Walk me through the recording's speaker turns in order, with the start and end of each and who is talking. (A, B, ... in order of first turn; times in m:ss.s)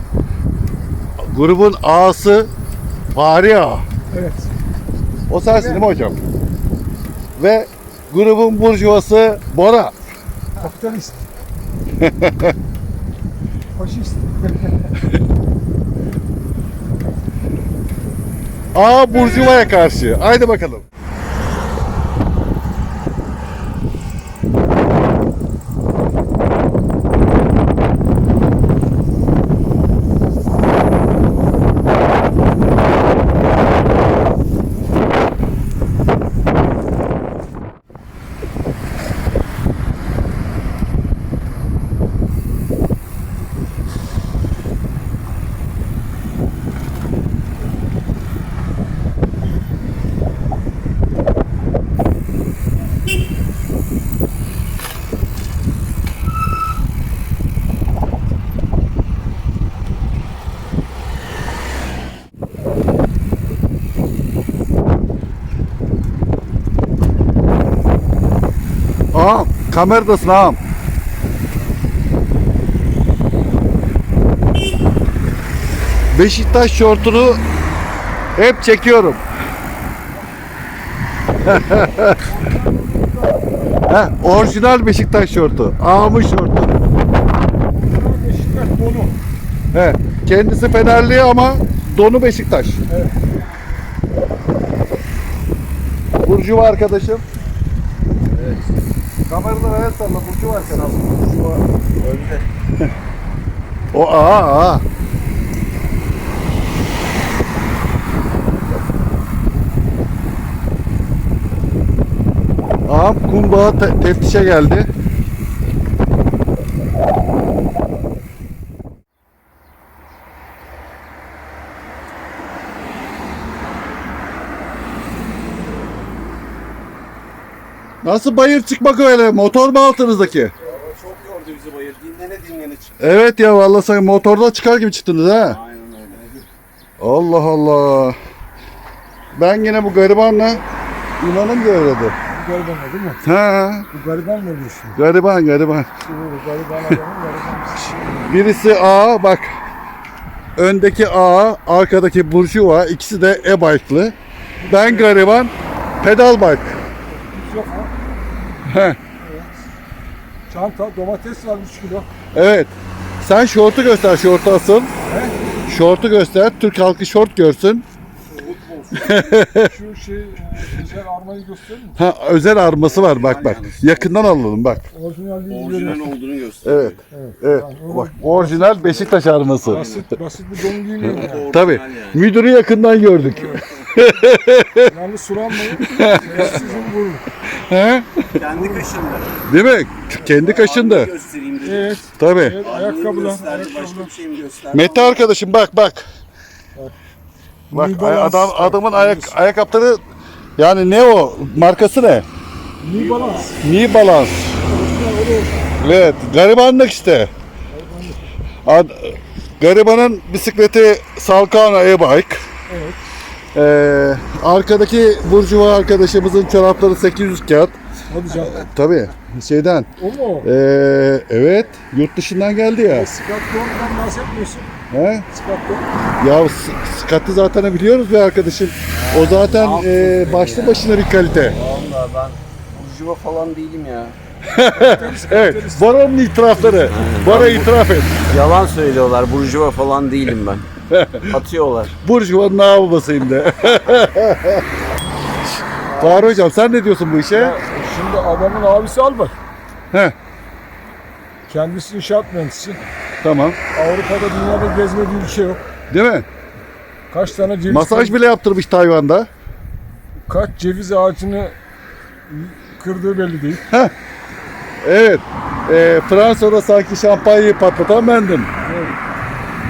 0:01.2-0:02.5 A
0:03.1-0:03.8 A
0:04.1-0:04.5 B
0:05.3-0:06.2 A
0:05.5-0:05.8 B
0:07.4-0:10.0 A
0:10.6-0:11.2 B
0:12.0-0:12.6 A
0:13.8-0:15.0 B
0:18.7-0:20.8 A
1:09.1-1:10.6 A
1:16.1-1:17.4 A
1:18.4-1:19.2 A
1:21.4-1:22.2 A
1:22.0-1:23.7 B
1:23.9-1:26.8 A
1:27.7-1:29.2 B
1:29.7-1:32.8 A
1:32.9-1:33.2 B
1:36.2-1:37.2 A
1:38.3-1:38.6 C
1:39.3-1:41.5 A
1:40.5-1:42.5 C
1:43.9-1:44.8 A
1:52.9-1:54.9 A
2:08.0-2:10.5 A
2:10.6-2:13.0 C
2:13.0-2:15.6 A
2:15.4-2:16.4 C
2:17.0-2:18.2 A
2:19.3-2:20.6 A
2:21.2-2:22.2 A
2:22.3-2:23.2 B
2:23.2-2:23.9 A
2:23.9-2:25.0 B
2:25.0-2:25.9 A
2:26.1-2:28.3 B
2:28.3-2:29.5 A
2:30.6-2:34.2 A
2:34.6-2:35.2 B
2:34.7-2:36.8 A
2:37.1-2:37.9 B
2:38.7-2:39.0 A
2:39.2-2:39.5 B
2:40.5-2:42.1 B
2:42.3-2:44.9 A
2:45.0-2:45.4 B
2:45.7-2:47.8 A
2:48.3-2:49.4 C
2:49.0-2:49.7 A
2:49.6-2:52.0 B
2:52.0-2:54.9 A
2:52.8-2:54.2 C
2:54.9-2:56.1 B
2:55.5-2:57.0 C
2:56.6-2:59.9 A
2:57.1-3:01.5 B
2:59.7-3:00.1 C
3:01.0-3:02.2 C
3:01.0-3:04.9 A
3:03.3-3:03.6 B
3:04.9-3:07.3 B
3:05.8-3:06.5 A
3:06.0-3:06.9 C
3:07.5-3:08.3 A
3:08.4-3:09.4 C
3:08.5-3:08.9 B
3:09.5-3:11.1 A
3:10.3-3:12.0 C
3:11.6-3:14.1 B
3:12.2-3:12.6 A
3:12.6-3:15.3 C
3:14.7-3:16.0 A
3:17.7-3:19.4 B
3:17.7-3:20.0 A
3:20.6-3:22.3 A
3:22.8-3:23.6 B
3:22.9-3:23.6 C
3:23.6-3:24.6 A
3:24.6-3:25.7 B
3:25.8-3:27.3 A
3:27.7-3:28.2 B
3:28.6-3:32.4 A
3:32.7-3:33.0 B
3:33.5-3:37.8 A
3:38.1-3:38.7 B
3:38.5-3:39.9 A
3:40.0-3:40.5 B
3:40.4-3:43.1 A
3:42.9-3:44.8 B
3:44.9-3:45.3 A
3:45.3-3:45.9 B
3:46.2-3:51.6 A
3:48.9-3:54.2 C
3:54.5-3:58.2 A
3:54.7-3:57.1 B
3:56.9-3:57.7 C
3:58.2-4:00.7 C
4:00.9-4:01.4 A
4:01.2-4:01.9 C
4:02.0-4:04.7 A
4:05.9-4:06.4 B
4:05.9-4:07.6 A
4:07.3-4:09.4 B
4:11.5-4:12.8 B
4:13.2-4:13.6 A
4:13.7-4:15.6 B
4:15.9-4:16.3 A
4:17.1-4:18.2 B
4:17.7-4:19.3 A
4:20.3-4:21.6 B
4:22.3-4:23.7 B
4:24.8-4:28.5 A
4:28.6-4:29.0 B